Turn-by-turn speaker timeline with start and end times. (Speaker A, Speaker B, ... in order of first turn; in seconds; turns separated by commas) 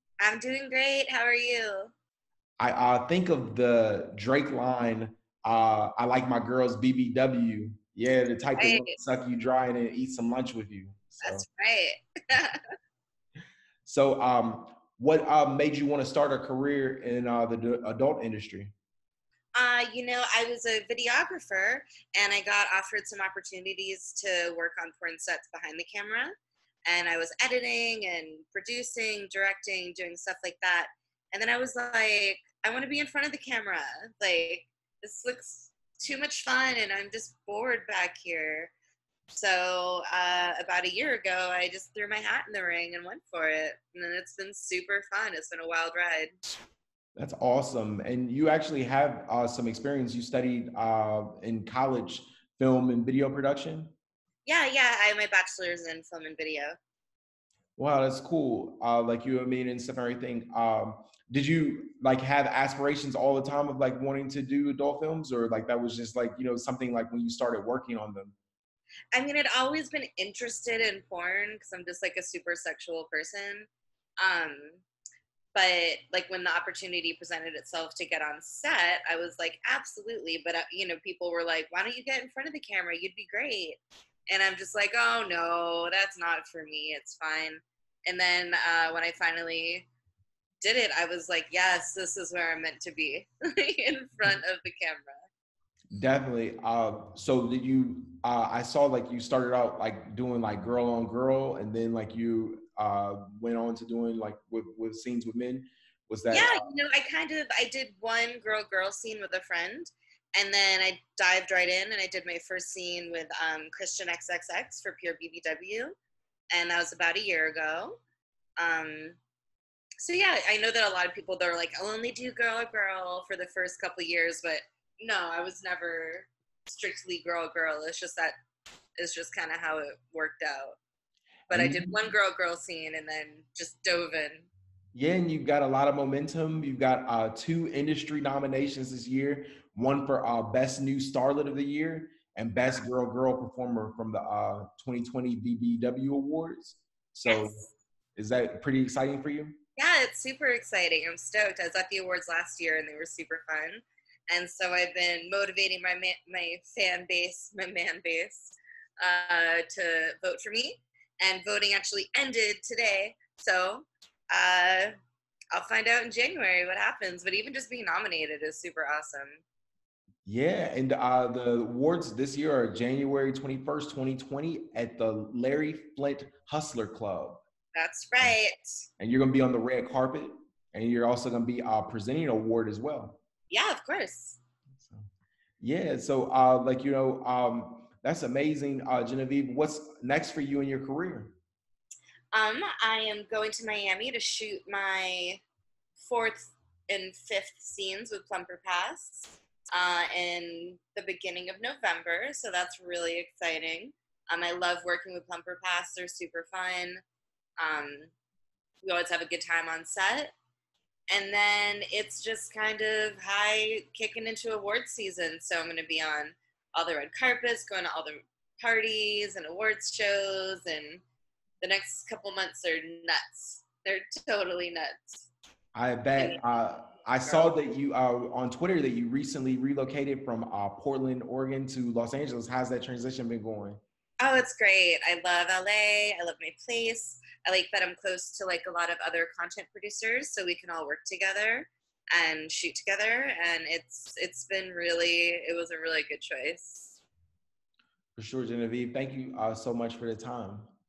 Speaker A: 0.2-1.9, Speaker B: 2.6-11.4, Speaker A: 8.5-8.9, Speaker A: 11.2-12.6, Speaker B: 13.8-18.7, Speaker A: 19.6-26.3, Speaker A: 26.9-38.7, Speaker A: 39.3-46.4, Speaker B: 47.1-53.9, Speaker A: 54.5-56.8, Speaker B: 57.8-68.4, Speaker A: 69.1-73.7, Speaker A: 74.2-74.8, Speaker A: 75.5-89.9, Speaker A: 90.6-95.2, Speaker B: 95.9-106.6, Speaker A: 106.3-116.0, Speaker A: 116.5-118.0, Speaker A: 118.6-119.2, Speaker A: 120.0-128.3, Speaker A: 129.0-130.8, Speaker B: 131.5-131.9, Speaker A: 131.5-134.5, Speaker B: 134.9-149.6, Speaker A: 147.3-147.7, Speaker A: 149.8-164.9, Speaker A: 165.5-169.4, Speaker B: 170.3-177.4, Speaker A: 177.8-178.7, Speaker B: 179.0-183.2, Speaker A: 183.5-184.4, Speaker B: 184.7-185.1, Speaker B: 185.6-191.4, Speaker A: 192.3-195.4, Speaker A: 196.0-207.0, Speaker A: 207.6-208.1, Speaker A: 208.8-210.3, Speaker A: 211.1-221.0, Speaker A: 221.6-225.3, Speaker B: 225.7-233.8, Speaker A: 226.2-226.4, Speaker A: 227.2-227.5, Speaker A: 234.2-247.0, Speaker B: 248.2-250.7